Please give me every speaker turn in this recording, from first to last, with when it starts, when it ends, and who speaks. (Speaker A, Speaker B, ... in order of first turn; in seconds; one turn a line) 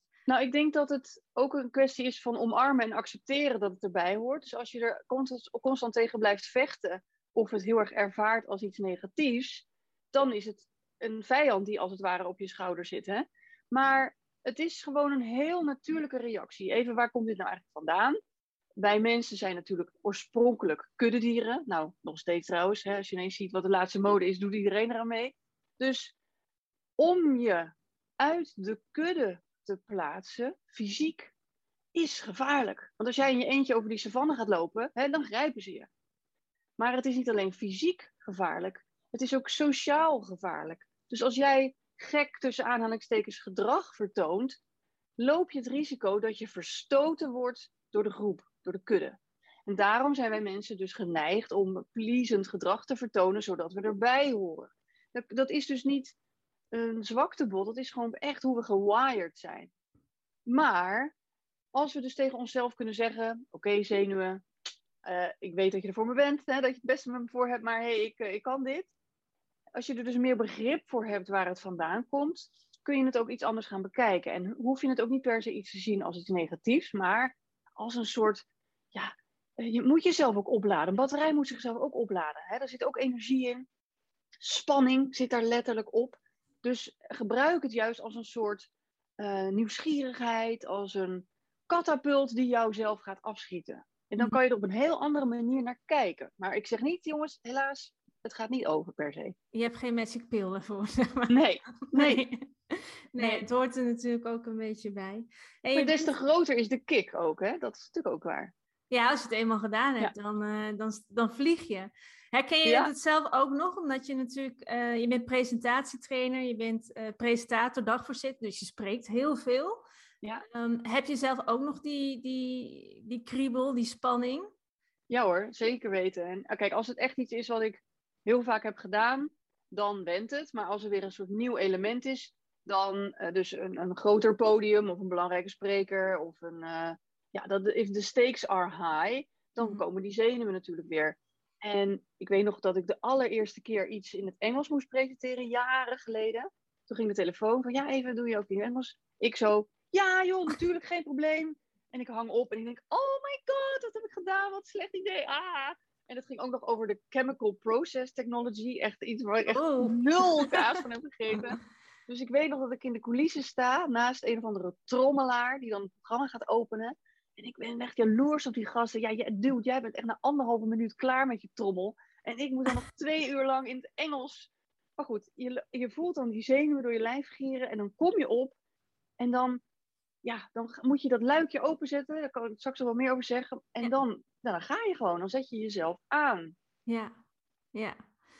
Speaker A: 0.3-18.1
Speaker A: 18.8-26.1
Speaker A: 27.0-31.3
Speaker A: 31.9-35.9
Speaker A: 36.8-44.6
Speaker A: 45.2-56.1
Speaker A: 56.7-59.7
Speaker A: 60.5-61.1
Speaker A: 61.7-64.4
Speaker A: 65.0-68.9
Speaker A: 69.7-83.7
Speaker A: 84.4-99.3
Speaker B: 99.5-106.1
Speaker A: 101.3-102.2
Speaker A: 103.2-103.4
Speaker A: 105.7-108.5
Speaker B: 108.9-119.8
Speaker A: 112.6-112.9
Speaker B: 120.5-124.5
Speaker A: 125.1-178.5
Speaker B: 159.5-160.7
Speaker A: 179.2-179.6
Speaker A: 180.2-186.5
Speaker B: 186.9-187.1
Speaker B: 187.7-188.0